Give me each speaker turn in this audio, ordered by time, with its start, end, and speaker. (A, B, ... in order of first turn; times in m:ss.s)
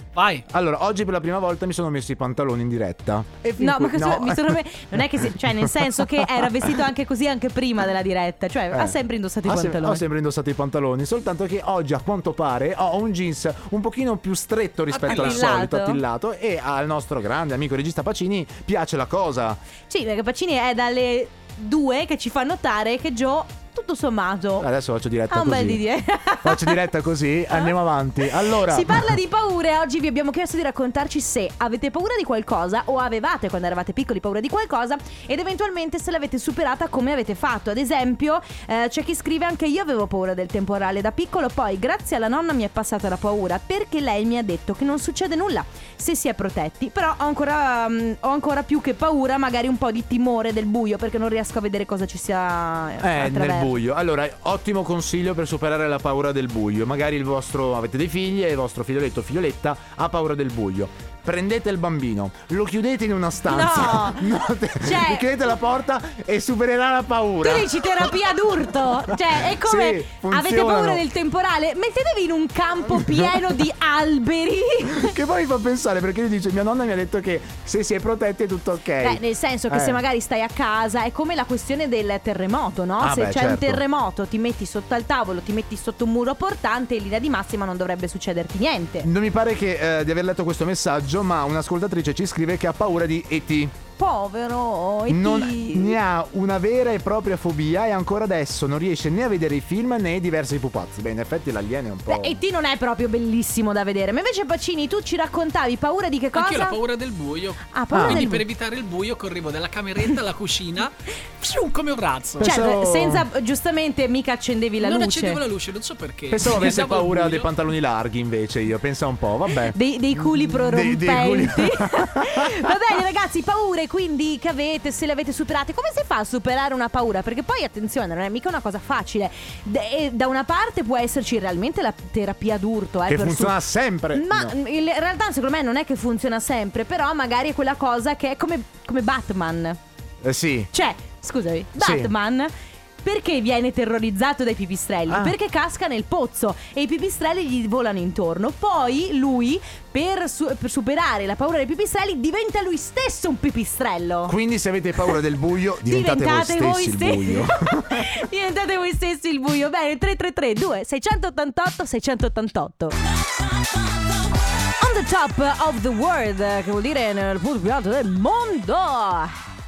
0:00.2-0:00.4 A
0:00.5-0:06.7 B
0:03.6-0:10.0 C
0:08.7-0:19.6 B
0:14.9-0:15.4 A
0:15.0-0:16.0 C
0:19.9-0:24.7 C
0:24.6-0:25.8 B
0:25.3-0:26.8 C
0:26.4-0:29.2 B
0:28.4-0:53.7 C
0:53.0-1:08.3 B
1:03.4-1:05.3 C
1:07.4-1:15.1 C
1:09.1-1:11.0 B
1:12.9-1:13.5 B
1:14.9-1:20.0 B
1:19.0-1:29.1 C
1:23.0-1:23.8 B
1:29.0-1:33.8 B
1:34.0-1:36.0 C
1:35.1-1:42.4 B
1:42.1-1:46.8 C
1:46.3-1:52.4 A
1:47.7-1:48.4 C
1:47.9-1:48.2 B
1:52.4-1:53.3 B
1:52.4-1:55.4 C
1:54.8-1:57.5 A
1:56.3-2:02.7 B
1:59.7-2:13.6 C
2:13.1-2:14.5 B
2:14.1-2:19.8 C
2:20.2-2:20.7 B
2:20.7-2:22.5 C
2:21.8-2:22.1 B
2:23.0-2:34.3 C
2:25.1-2:25.3 B
2:34.3-2:38.2 B
2:35.8-2:42.9 C
2:44.8-2:49.3 C